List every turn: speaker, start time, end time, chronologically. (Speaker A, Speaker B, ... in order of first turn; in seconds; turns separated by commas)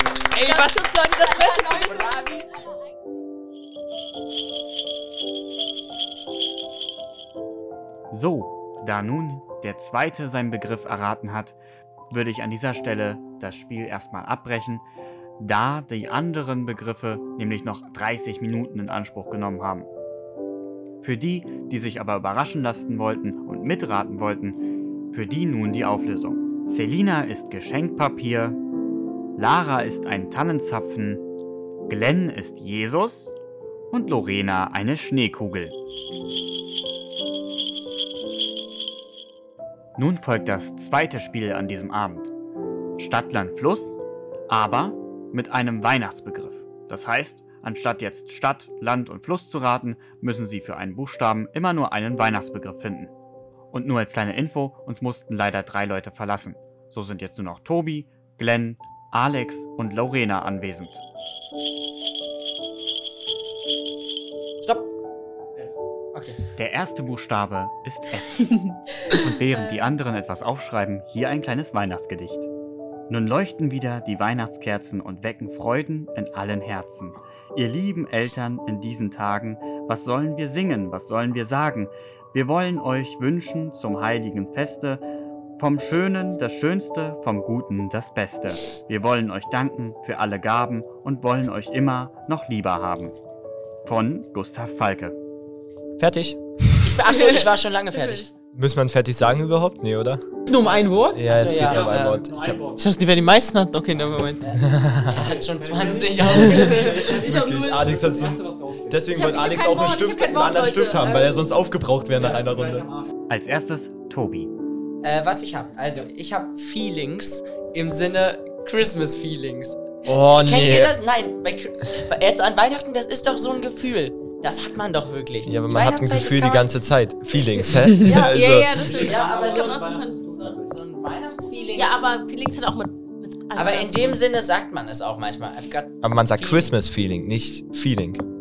Speaker A: 0.3-2.7, Speaker B: 0.3-2.3, Speaker C: 8.1-11.6, Speaker C: 12.1-14.8, Speaker C: 15.4-19.9, Speaker C: 21.0-24.6, Speaker C: 25.1-28.6, Speaker C: 29.4-31.2, Speaker C: 31.9-33.3, Speaker C: 33.9-35.7, Speaker C: 40.0-42.3, Speaker C: 43.0-53.1, Speaker C: 53.7-61.0, Speaker A: 64.6-64.9, Speaker A: 66.1-66.4, Speaker C: 66.5-72.5, Speaker C: 73.1-85.0, Speaker C: 85.6-93.1, Speaker C: 93.8-95.1, Speaker D: 96.0-97.0, Speaker A: 96.8-98.3, Speaker B: 97.1-98.3, Speaker D: 98.5-100.2, Speaker E: 100.5-101.5, Speaker D: 101.1-102.8, Speaker A: 101.2-102.3, Speaker E: 102.7-104.5, Speaker A: 104.4-107.2, Speaker D: 104.6-105.2, Speaker B: 106.5-108.0, Speaker D: 106.9-112.9, Speaker B: 109.1-111.5, Speaker C: 113.3-114.5, Speaker A: 115.0-126.7, Speaker D: 120.0-121.0, Speaker D: 125.4-128.9, Speaker A: 127.9-131.9, Speaker B: 128.1-130.5, Speaker B: 131.7-134.2, Speaker A: 133.5-136.7, Speaker D: 136.0-138.2